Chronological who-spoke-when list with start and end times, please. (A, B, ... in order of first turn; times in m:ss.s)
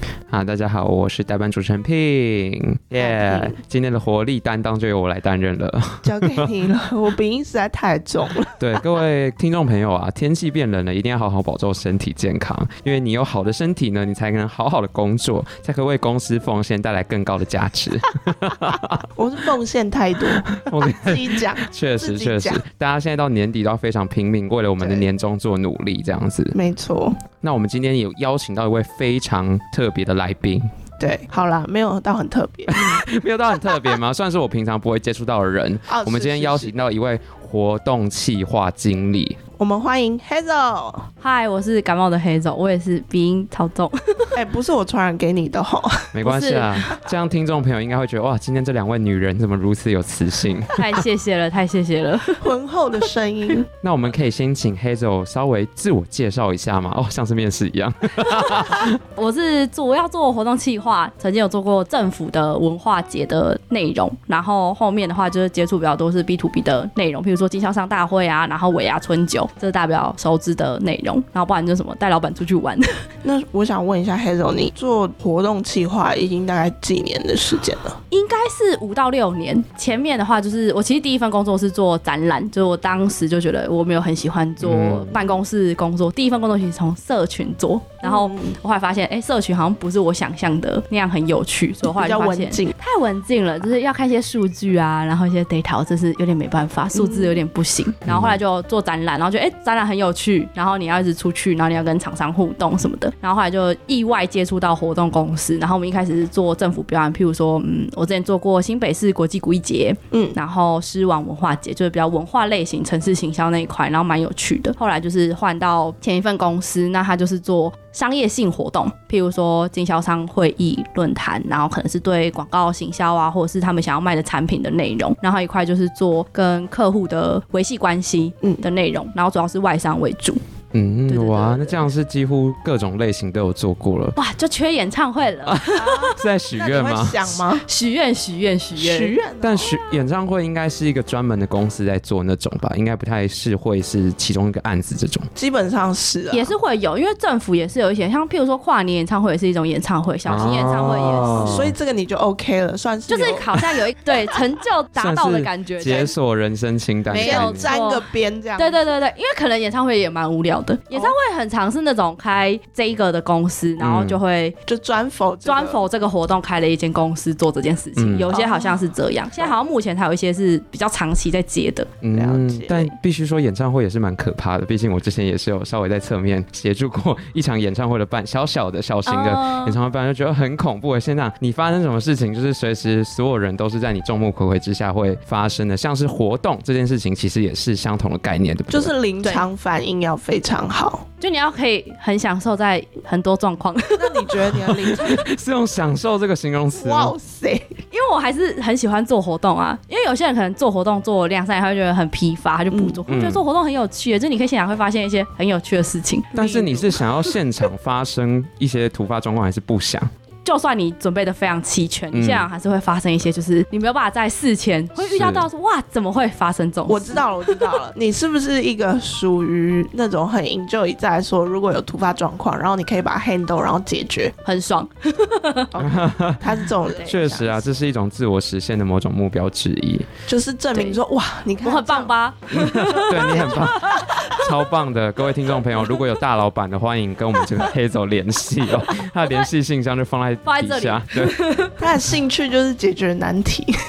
0:00.3-0:06.5 A
0:03.0-0:03.5 B
0:06.0-0:08.8 B
0:08.6-0:19.0 A
0:19.2-0:22.6 B
0:20.5-0:26.6 A
0:24.8-0:25.0 B
0:26.5-0:27.2 B
0:27.4-0:30.7 A
0:31.0-0:33.0 B
0:32.7-0:39.4 A
0:35.9-0:36.7 B
0:39.6-0:41.0 B
0:41.2-0:44.3 C
0:44.3-0:46.1 B
0:46.1-0:51.0 A
0:46.2-0:46.7 C
0:50.8-0:52.4 C
0:52.4-0:53.7 B
0:53.8-0:59.0 A
0:58.3-1:12.9 C
1:13.2-1:18.0 B
1:18.1-2:10.4 C
1:24.6-1:25.2 A
1:28.0-1:28.5 B
1:31.9-1:32.7 B
1:36.9-1:37.4 B
1:38.0-1:38.4 A
2:10.7-2:14.2 A
2:11.1-2:11.8 C
2:14.1-2:16.2 C
2:15.4-2:17.4 A
2:15.8-2:17.6 B
2:17.6-2:19.2 C
2:18.8-2:19.7 B
2:19.4-2:25.2 A
2:25.3-2:26.5 B
2:26.3-2:31.5 C
2:30.3-2:31.7 A
2:31.4-2:33.5 B
2:33.1-2:36.1 C
2:35.0-2:37.7 A
2:37.1-2:38.0 C
2:37.1-2:38.9 B
2:38.6-2:44.6 C
2:43.8-2:44.2 A
2:44.7-2:45.8 B
2:45.4-2:51.9 C
2:48.0-2:48.3 A
2:48.3-2:49.5 B
2:52.0-3:08.9 A
2:52.1-2:52.9 B
2:59.0-2:59.7 C
3:08.7-3:11.0 B
3:11.2-3:14.4 C
3:14.0-3:15.2 B
3:14.6-3:17.1 A
3:16.8-3:17.7 B
3:17.9-3:26.3 C
3:22.7-3:23.0 B
3:23.1-3:23.4 A
3:26.3-3:27.0 B
3:26.3-3:30.1 A
3:30.4-3:37.6 C
3:32.1-3:32.5 A
3:35.0-3:35.4 A
3:36.9-3:44.3 B
3:44.4-3:45.7 C
3:45.7-3:47.6 B
3:45.8-3:46.5 A
3:47.0-3:50.1 A
3:50.3-3:52.1 B
3:51.6-3:54.4 C
3:52.5-4:01.4 A
3:53.2-3:53.8 B
4:00.4-4:01.7 C
4:01.8-4:03.7 B